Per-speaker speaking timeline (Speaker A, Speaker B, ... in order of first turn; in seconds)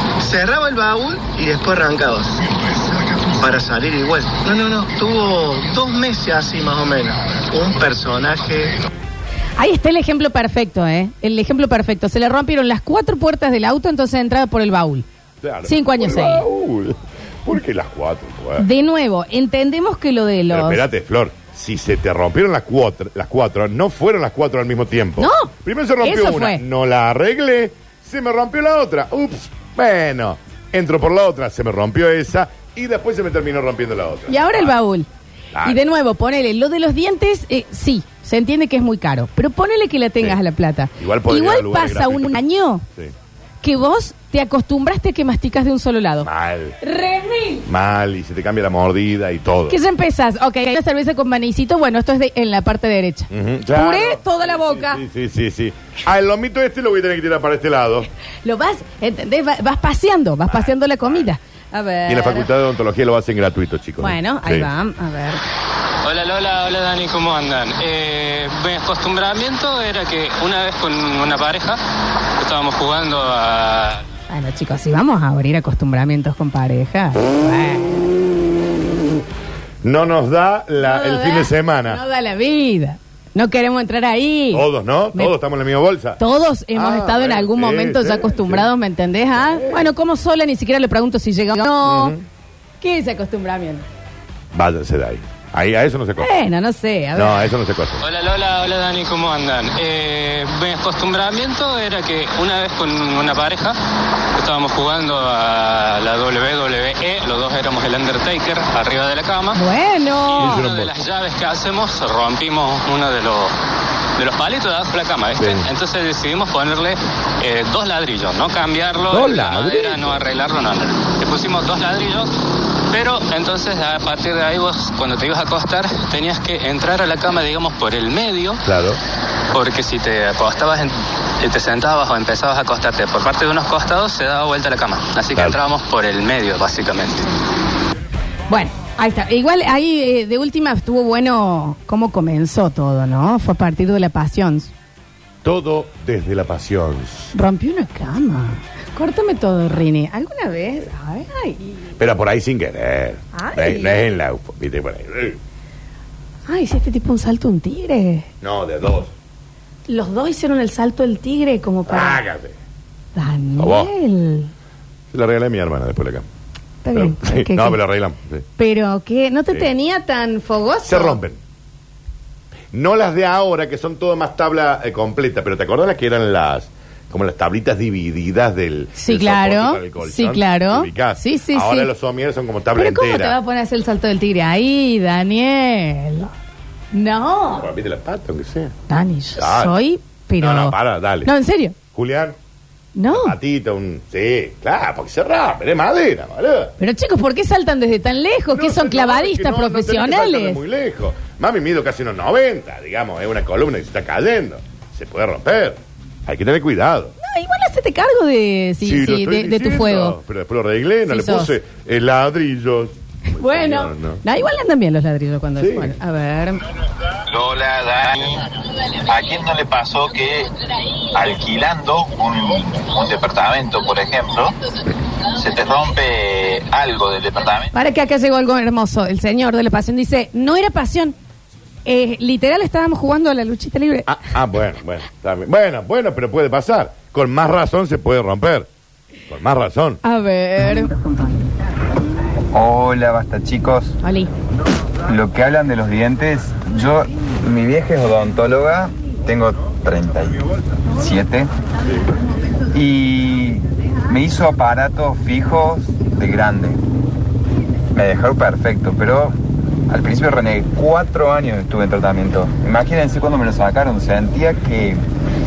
Speaker A: 0.2-2.4, 3.3-8.8
Speaker B: 9.6-15.1, 15.7-16.4, 18.6-20.8, 25.2-26.6, 34.3-35.1, 35.6-42.9, 43.6-46.3, 46.8-47.6, 49.7-55.0, 58.5-62.5, 64.0-65.4, 74.3-78.0, 80.8-85.3, 86.2-92.1, 92.8-93.8, 96.2-97.4, 109.5-110.6, 138.5-144.7, 147.3-151.8, 153.3-154.0, 156.5-158.3, 159.9-162.2, 163.2-164.5, 166.8-167.8, 168.6-171.2, 179.0-181.9, 182.8-186.3, 186.9-187.7, 188.9-191.7, 193.0-193.3, 196.8-200.6, 207.2-210.2, 211.1-211.6, 213.3-216.6, 227.7-231.2, 231.9-234.1, 240.0-240.9, 244.0-244.3
Speaker C: 15.4-18.7, 20.5-34.8, 41.0-42.4, 46.2-46.8, 47.7-49.8, 53.3-58.1, 60.5-61.2, 62.1-64.7, 79.8-82.0, 84.5-86.2, 86.7-88.7, 89.3-89.9, 91.8-92.2, 94.5-96.3, 97.2-98.0, 110.4-110.9, 115.4-115.7, 119.1-120.2, 128.7-129.0, 145.4-147.3, 152.0-155.4, 158.4-159.1, 161.9-162.6, 163.6-163.9, 165.1-166.2, 166.9-168.5, 170.8-171.4, 172.7-183.4, 187.6-188.7, 189.4-189.7, 190.4-191.3, 191.9-192.4, 193.1-196.7, 198.5-207.2, 208.8-214.2, 215.6-215.9, 234.1-238.7, 239.3-240.0
Speaker D: 66.0-71.8, 72.4-74.0, 98.0-103.8, 104.3-109.6, 110.3-113.5, 114.2-122.3, 122.9-128.6, 129.5-137.3
Speaker E: 217.3-218.5, 219.1-220.5, 221.1-224.5, 225.3-227.7
Speaker F: 242.5-244.0, 245.1-250.4, 251.0-251.5, 252.7-256.8, 257.9-259.4, 259.9-265.0